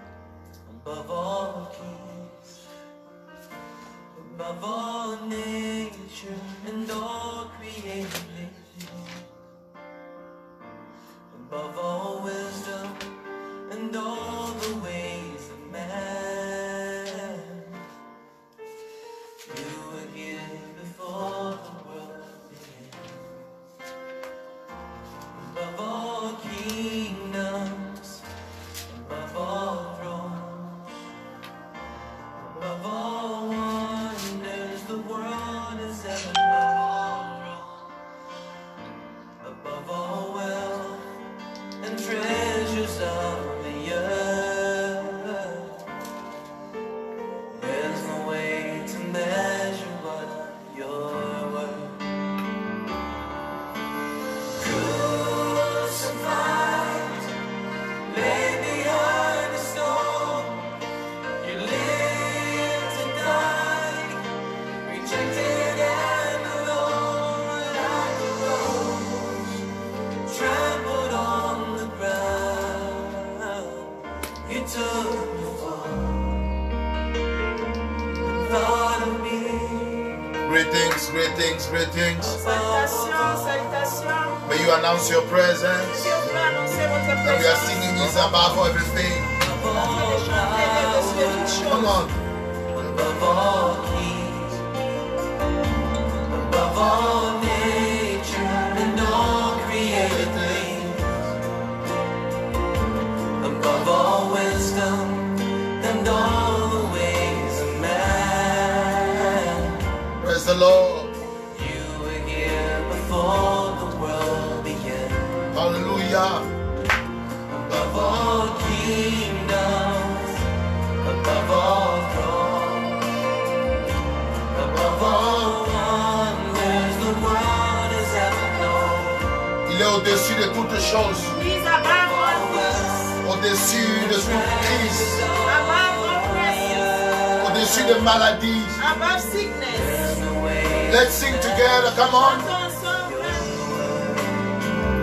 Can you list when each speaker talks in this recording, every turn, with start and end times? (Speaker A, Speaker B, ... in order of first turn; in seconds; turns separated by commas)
Speaker A: 0.6-2.5, Speaker A: 4.1-9.2, Speaker A: 11.3-17.8, Speaker A: 19.4-23.3, Speaker A: 25.3-28.2, Speaker A: 28.9-30.9, Speaker A: 32.3-37.6, Speaker A: 39.4-41.1, Speaker A: 41.8-45.8, Speaker A: 47.5-52.1, Speaker A: 54.6-57.3, Speaker A: 58.0-60.8, Speaker A: 61.4-64.3, Speaker A: 64.8-69.6, Speaker A: 70.3-76.5, Speaker A: 78.2-80.3, Speaker B: 80.4-82.4, Speaker A: 82.2-83.5, Speaker C: 82.2-84.4, Speaker B: 84.4-86.3, Speaker C: 85.8-88.1, Speaker B: 87.2-89.3, Speaker A: 89.3-91.7, Speaker C: 89.7-92.0, Speaker B: 91.7-92.2, Speaker A: 92.7-94.6, Speaker A: 96.2-101.3, Speaker B: 99.9-101.1, Speaker A: 103.4-109.8, Speaker B: 110.2-111.1, Speaker A: 111.5-115.5, Speaker B: 115.5-116.5, Speaker A: 117.5-120.4, Speaker A: 121.0-123.1, Speaker A: 124.5-129.4, Speaker B: 124.7-125.6, Speaker B: 129.6-131.3, Speaker C: 131.3-133.1, Speaker A: 131.5-133.2, Speaker B: 133.2-135.3, Speaker A: 133.8-138.2, Speaker C: 135.4-136.8, Speaker B: 137.4-138.8, Speaker C: 138.8-140.1, Speaker A: 139.7-142.0, Speaker B: 140.9-142.5, Speaker C: 142.0-143.5, Speaker A: 142.8-144.5